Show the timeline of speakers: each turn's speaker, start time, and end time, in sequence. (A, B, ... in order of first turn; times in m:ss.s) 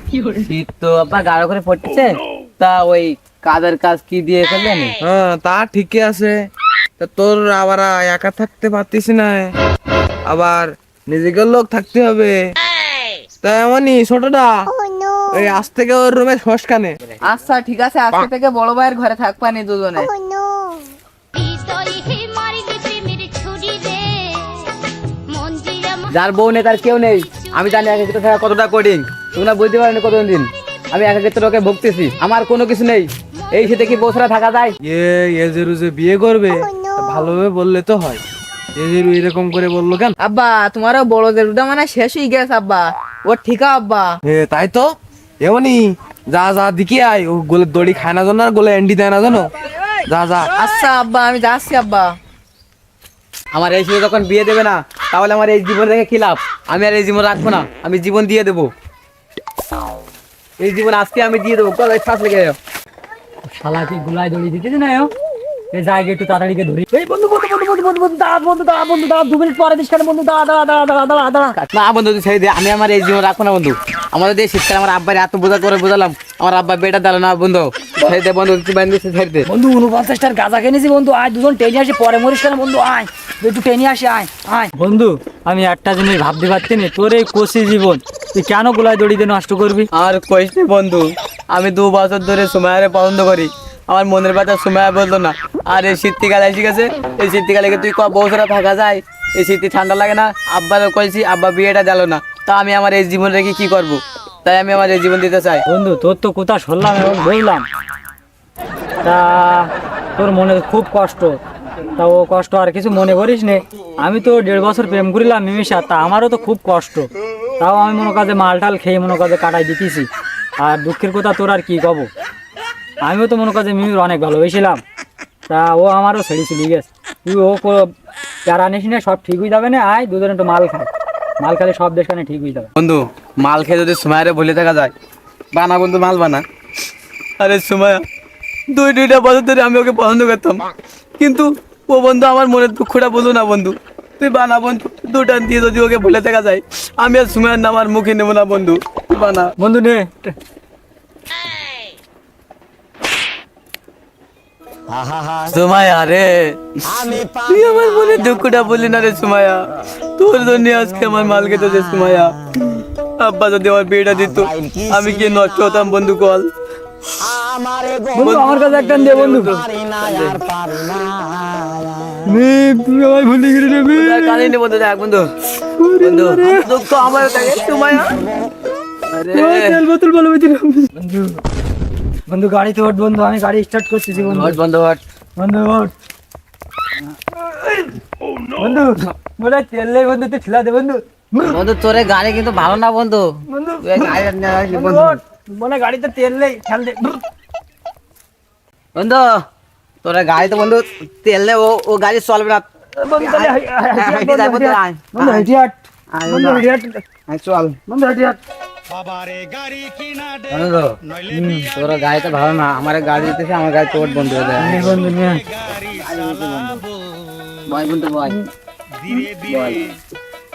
0:00.2-0:04.9 A
0:05.0-0:06.4 B
0:07.0-0:09.5 B
0:10.2-0:12.4 B
0:13.4-0:14.7 B
0:15.3-0:17.0 B
0:17.2-0:20.1 C
0:21.3-0:26.1 D
0:26.1-0:34.7 A
0:34.8-0:38.2 B
0:38.8-0:40.1 B
0:40.2-0:44.1 C
0:44.2-0:44.9 B
0:45.4-0:49.5 B
0:50.1-0:50.5 B
0:50.6-0:52.1 C
0:53.5-0:58.7 A
1:00.6-1:02.6 A
1:03.4-1:05.1 E
1:05.7-1:11.5 E
1:11.6-1:19.5 A
1:19.4-1:29.9 E
1:29.9-1:45.6 A
1:45.7-1:47.7 E
1:49.0-1:51.4 E
1:52.0-2:00.1 E
2:00.6-2:02.1 E
2:03.0-2:04.8 E
2:05.5-2:07.9 E
2:08.4-2:12.7 E
2:12.8-2:14.9 A
2:15.5-2:16.4 A
2:17.4-2:18.0 A
2:18.7-2:20.6 A
2:21.2-2:29.5 A
2:29.6-2:30.3 E
2:35.3-2:39.6 A
2:40.2-2:42.4 A
2:43.2-2:46.5 A
2:48.1-2:49.6 E
2:48.1-2:50.4 A
2:52.2-2:54.5 E
2:53.9-2:55.3 A
2:55.7-2:56.6 E
2:56.0-2:58.2 A
2:59.1-2:59.8 A
2:59.3-3:01.4 E
3:02.3-3:04.6 E
3:04.2-3:05.0 A
3:05.4-3:05.9 E
3:07.0-3:11.6 E
3:11.4-3:13.3 A
3:13.5-3:17.2 E
3:13.8-3:15.2 A
3:18.9-3:19.4 A
3:20.0-3:25.5 A
3:23.0-3:27.0 E
3:26.1-3:26.6 A
3:27.3-3:27.8 A
3:27.9-3:28.4 E
3:30.5-3:35.0 A
3:31.3-3:31.7 E
3:34.6-3:35.4 E
3:35.8-3:36.8 A
3:37.6-3:38.4 A
3:39.5-3:39.8 A